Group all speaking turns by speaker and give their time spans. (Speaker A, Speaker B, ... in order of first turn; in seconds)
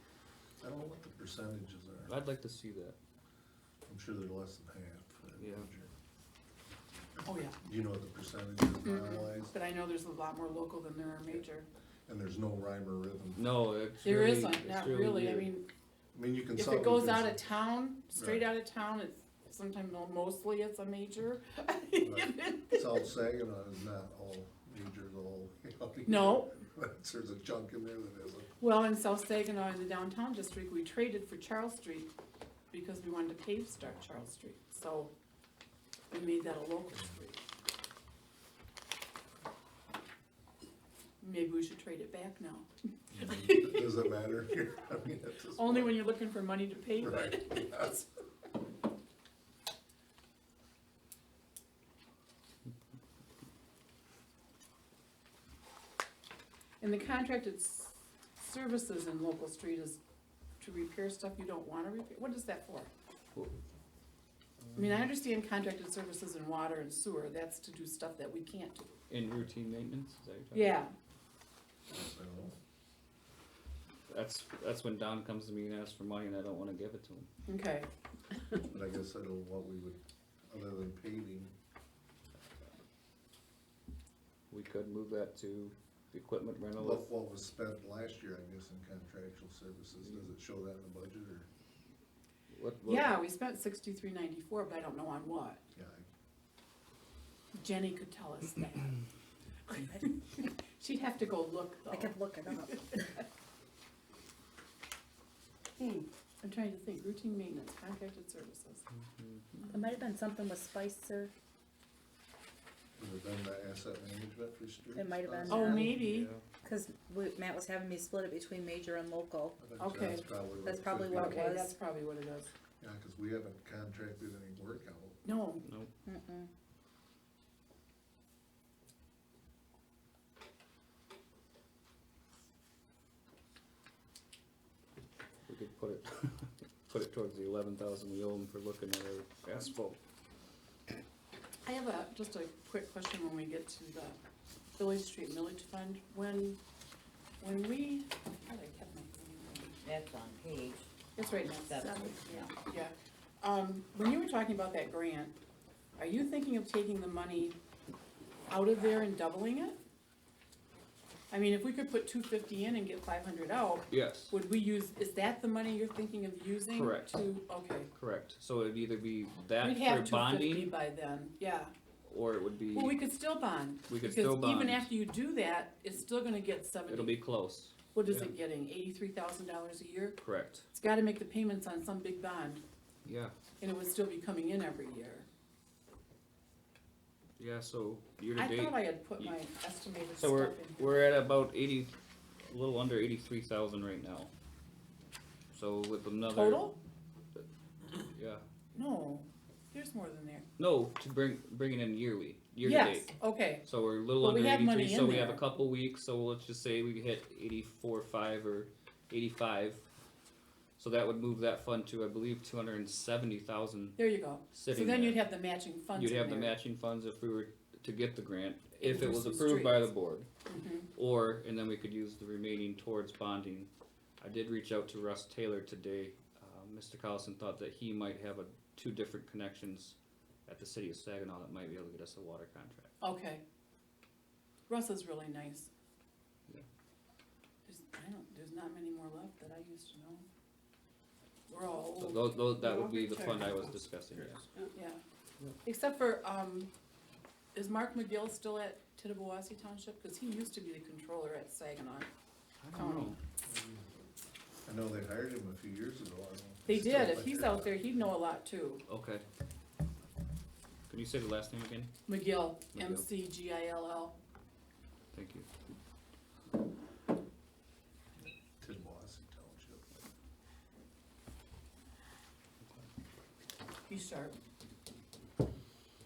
Speaker A: 0.6-2.1, 3.9-5.9, 7.6-9.5, 12.1-13.4, 16.1-17.4, 18.1-18.5, 22.0-28.5, 36.9-37.2, 43.1-46.0, 47.0-48.0, 71.9-72.5, 78.7-81.5, 86.8-91.5, 95.7-96.1, 113.0-115.8, 119.6-121.5, 122.8-125.2, 253.4-253.8, 254.6-257.8, 268.2-270.0
Speaker B: 2.1-3.0, 5.4-5.7, 13.3-15.5, 64.7-65.0, 69.1-70.8, 74.1-77.3, 84.5-87.1, 90.0-90.3, 92.5-93.2, 108.9-109.7, 115.8-116.4, 125.6-125.9, 135.5-140.0, 163.9-164.3, 166.7-167.2, 167.9-170.7, 172.0-173.0, 173.9-174.9, 176.9-178.3, 180.2-180.7, 183.0-183.3, 187.4-189.4, 190.2-191.9, 192.5-194.3, 195.5-196.7, 198.0-198.4, 200.6-209.8, 210.8-215.3, 215.9-220.3, 220.9-232.9, 242.0-244.5, 252.6-253.2, 258.9-259.2, 260.9-261.9, 262.7-263.0, 265.1-265.5, 272.6-272.9
Speaker C: 7.2-7.6, 8.8-11.7, 14.0-15.7, 16.5-23.0, 26.1-26.5, 28.6-32.1, 32.7-35.1, 36.1-37.4, 41.2-43.9, 45.6-48.0, 56.8-60.0, 60.6-62.9, 64.8-68.9, 70.5-70.9, 77.5-78.6, 92.8-95.6, 97.5-99.0, 99.7-103.2, 106.4-108.8, 115.5-116.3, 119.8-120.2, 121.1-122.5, 125.2-125.6, 141.6-144.2, 144.8-146.6, 147.4-149.8, 151.2-155.3, 156.0-157.6, 158.5-159.8, 161.3-167.9, 169.6-171.7, 172.7-177.1, 177.9-180.2, 180.7-182.6, 183.6-185.3, 188.3-191.1, 196.3-196.8, 198.7-200.4, 202.6-203.6, 204.2-205.4, 213.9-216.5, 218.8-219.9, 220.4-220.9, 233.0-233.4, 234.7-235.7, 237.6-240.2, 241.5-242.4, 244.7-245.0, 245.6-246.7, 247.5-252.1, 252.7-253.2, 256.7-258.8, 262.1-264.1, 273.9-274.4
Speaker D: 101.9-103.1, 105.8-106.0, 109.7-111.3, 114.9-116.0, 116.6-119.6, 120.6-121.7, 126.0-126.5, 151.7-152.4
Speaker E: 149.8-152.5, 242.6-244.7